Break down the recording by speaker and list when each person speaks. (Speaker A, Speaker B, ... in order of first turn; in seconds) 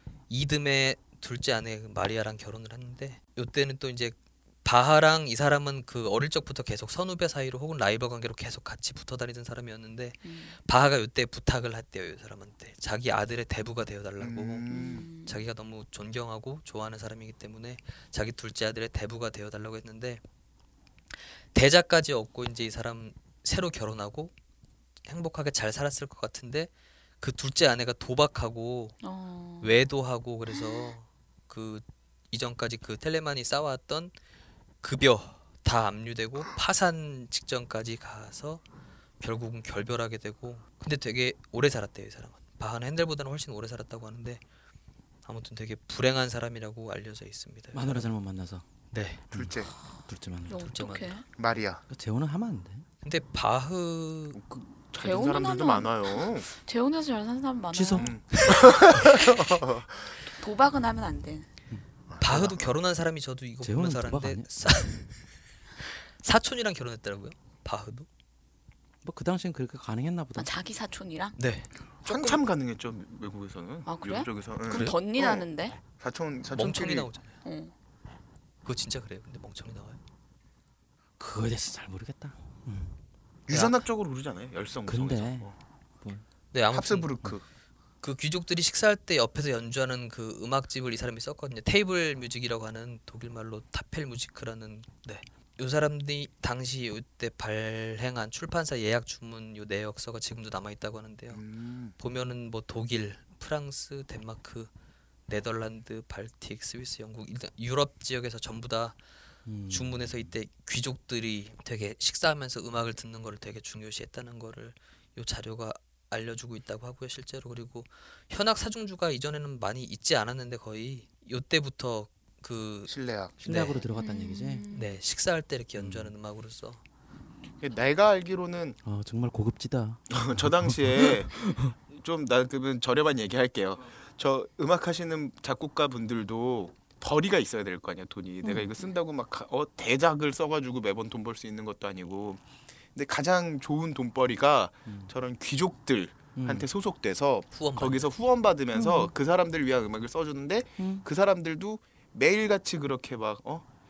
Speaker A: 0.3-20.2, 21.5-24.3, 25.1-26.7, 27.2-29.0, 29.6-34.1, 34.8-38.6, 39.2-44.4, 45.2-48.1, 48.9-49.3, 50.6-51.2, 53.0-54.4, 62.2-65.2, 65.8-68.1, 71.4-72.4, 74.7-75.0, 76.5-77.3, 78.6-80.0, 83.5-83.8, 86.5-87.1, 88.0-101.4, 102.0-104.7, 105.3-109.0, 109.7-122.9, 123.5-123.8, 124.7-126.8, 147.5-148.1
Speaker B: 10.2-10.5, 14.7-15.4, 29.0-29.8, 50.5-51.2, 55.0-58.1, 59.0-59.4, 60.3-61.5, 70.4-71.4, 73.9-75.8, 77.4-77.7, 123.9-124.9
Speaker C: 14.2-15.1, 49.3-49.7, 51.4-51.8, 54.3-56.5, 58.0-60.1, 62.1-62.7, 72.0-77.1, 83.5-85.5, 86.7-87.5, 101.3-102.0, 122.9-123.4, 125.8-126.0, 127.6-128.8, 130.1-131.4, 131.9-142.4, 142.9-153.6
Speaker D: 47.7-48.6, 50.1-50.6, 51.9-52.9, 57.7-58.2, 63.6-64.5, 69.0-70.5, 81.2-83.0, 84.9-85.5, 109.5-110.2, 123.4-124.7, 128.8-131.8, 146.4-146.7, 148.7-149.1, 150.8-151.1